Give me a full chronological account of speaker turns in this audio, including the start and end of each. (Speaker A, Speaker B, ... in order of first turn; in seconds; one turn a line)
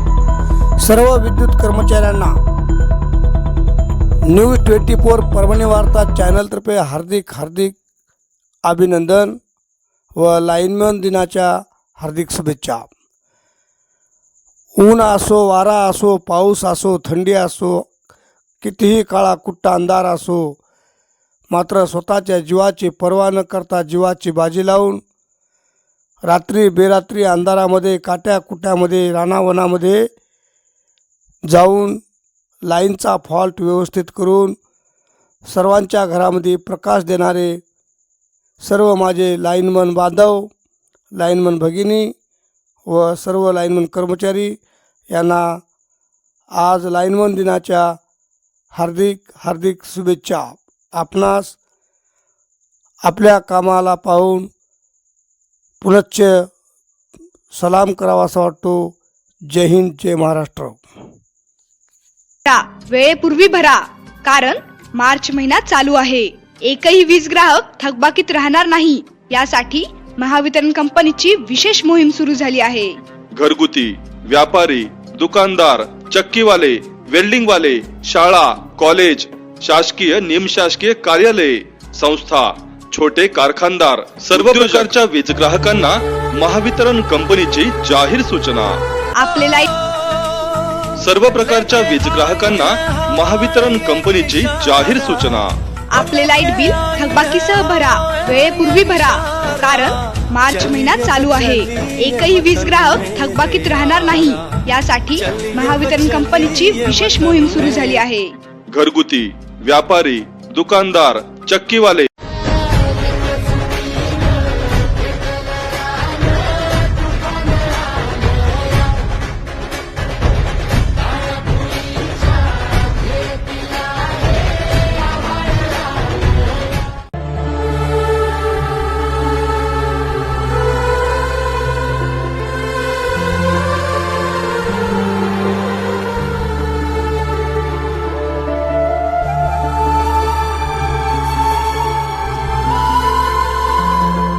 Speaker A: 0.8-2.3
Speaker A: 4.2-7.8
Speaker A: 8.6-9.4
Speaker A: 10.2-12.9
Speaker A: 14.8-17.9
Speaker A: 18.6-20.6
Speaker A: 21.5-25.0
Speaker A: 26.2-30.1
Speaker A: 31.4-32.0
Speaker A: 32.6-34.5
Speaker A: 35.5-37.6
Speaker A: 38.6-40.5
Speaker A: 41.1-42.1
Speaker A: 42.9-44.6
Speaker A: 45.1-45.6
Speaker A: 46.5-48.0
Speaker A: 48.7-51.6
Speaker A: 53.0-54.5
Speaker A: 55.8-56.4
Speaker A: 57.5-58.9
Speaker A: 59.5-60.8
Speaker B: 62.4-73.0
Speaker C: 73.3-88.8
Speaker B: 89.2-89.7
Speaker C: 91.0-95.5
Speaker B: 95.9-108.3
Speaker C: 108.7-112.1